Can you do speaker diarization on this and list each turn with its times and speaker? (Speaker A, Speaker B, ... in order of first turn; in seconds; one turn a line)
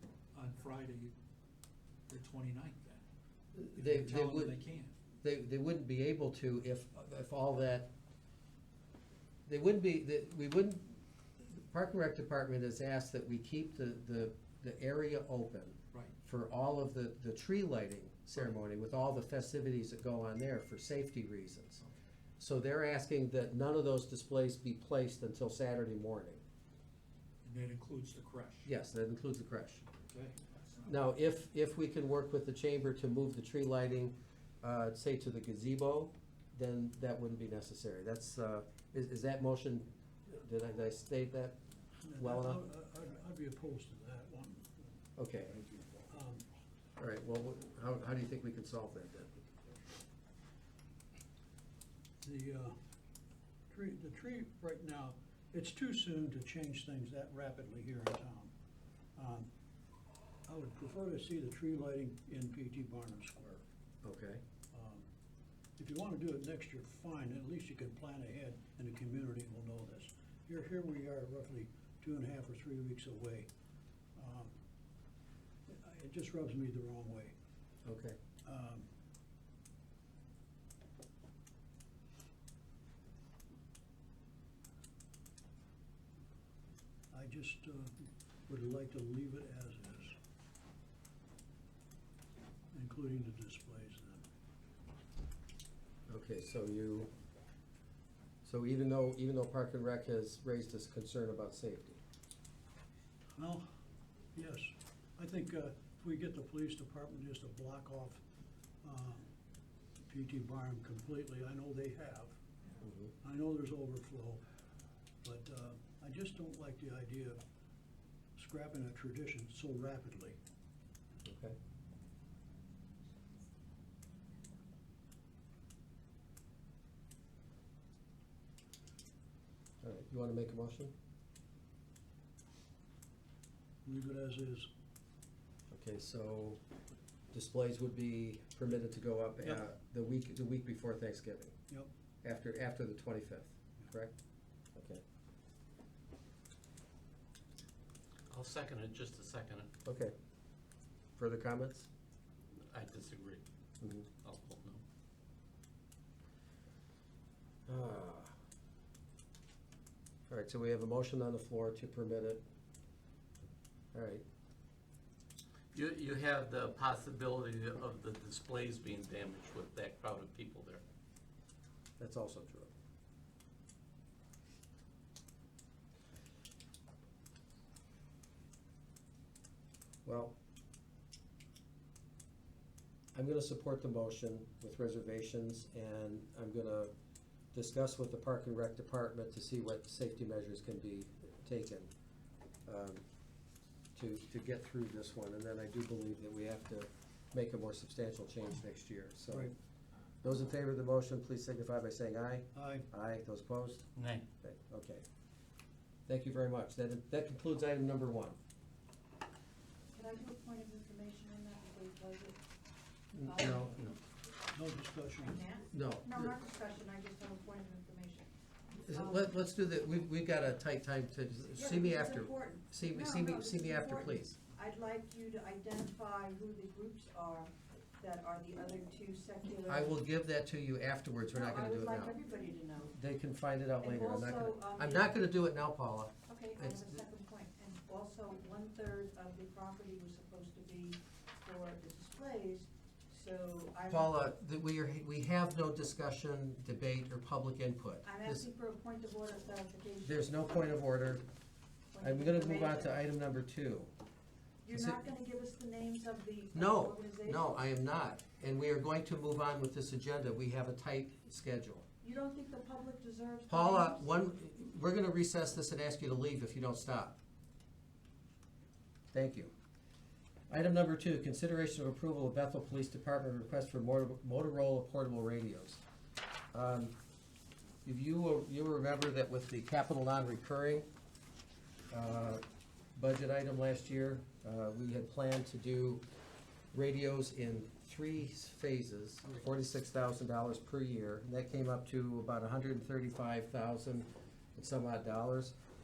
Speaker A: 0.3-1.1
Speaker A: 2.1-3.0
Speaker B: 3.5-4.5
Speaker A: 3.8-4.9
Speaker B: 5.2-7.9
Speaker B: 9.5-21.8
Speaker B: 22.4-26.4
Speaker A: 27.4-28.7
Speaker B: 28.6-29.9
Speaker A: 30.1-30.9
Speaker B: 30.9-41.6
Speaker C: 42.0-45.0
Speaker B: 42.2-42.6
Speaker B: 45.2-45.6
Speaker C: 46.1-46.5
Speaker B: 47.0-49.4
Speaker C: 52.2-52.8
Speaker C: 53.7-58.5
Speaker C: 59.2-59.5
Speaker C: 60.5-63.6
Speaker B: 64.0-64.4
Speaker C: 64.7-65.1
Speaker C: 65.8-73.5
Speaker C: 74.2-74.5
Speaker C: 75.7-77.3
Speaker B: 77.8-78.2
Speaker C: 78.5-78.9
Speaker C: 87.1-90.2
Speaker C: 92.7-94.2
Speaker B: 96.1-97.1
Speaker B: 98.4-102.0
Speaker C: 103.4-103.7
Speaker C: 104.3-108.2
Speaker C: 108.8-109.3
Speaker C: 110.1-112.4
Speaker B: 112.8-113.1
Speaker C: 113.2-114.4
Speaker C: 115.2-117.4
Speaker C: 118.4-120.4
Speaker B: 121.2-121.6
Speaker B: 129.8-130.9
Speaker C: 133.8-134.7
Speaker B: 135.7-136.6
Speaker B: 137.3-141.5
Speaker B: 142.2-144.1
Speaker B: 144.8-145.0
Speaker D: 148.3-149.7
Speaker B: 149.8-150.1
Speaker B: 151.2-151.9
Speaker D: 152.6-153.4
Speaker B: 153.8-154.1
Speaker D: 154.2-154.8
Speaker B: 157.7-158.3
Speaker B: 160.3-162.4
Speaker B: 163.9-164.2
Speaker D: 165.7-170.8
Speaker B: 172.0-172.7
Speaker B: 180.1-180.3
Speaker B: 183.1-186.9
Speaker B: 187.5-191.9
Speaker B: 192.7-193.0
Speaker B: 193.9-199.5
Speaker B: 200.2-203.9
Speaker C: 202.5-202.9
Speaker D: 204.0-204.2
Speaker B: 204.4-205.0
Speaker B: 206.1-208.4
Speaker E: 209.9-212.4
Speaker B: 213.1-214.0
Speaker E: 213.2-213.9
Speaker C: 214.5-215.4
Speaker E: 215.2-218.3
Speaker B: 215.7-216.3
Speaker B: 218.8-224.4
Speaker E: 218.9-219.3
Speaker E: 221.6-230.0
Speaker B: 229.7-232.2
Speaker E: 231.3-232.9
Speaker B: 232.9-237.0
Speaker E: 233.8-235.1
Speaker E: 236.3-244.2
Speaker B: 243.9-248.4
Speaker E: 248.0-250.7
Speaker B: 250.0-251.3
Speaker E: 251.9-253.0
Speaker B: 252.0-253.9
Speaker E: 254.6-257.5
Speaker B: 254.7-255.0
Speaker B: 256.5-261.9
Speaker E: 262.0-264.1
Speaker B: 263.5-267.2
Speaker B: 269.1-269.5
Speaker B: 270.5-275.8
Speaker B: 276.5-276.9
Speaker B: 277.9-280.9
Speaker B: 281.9-282.4
Speaker B: 283.0-286.0
Speaker B: 286.7-295.5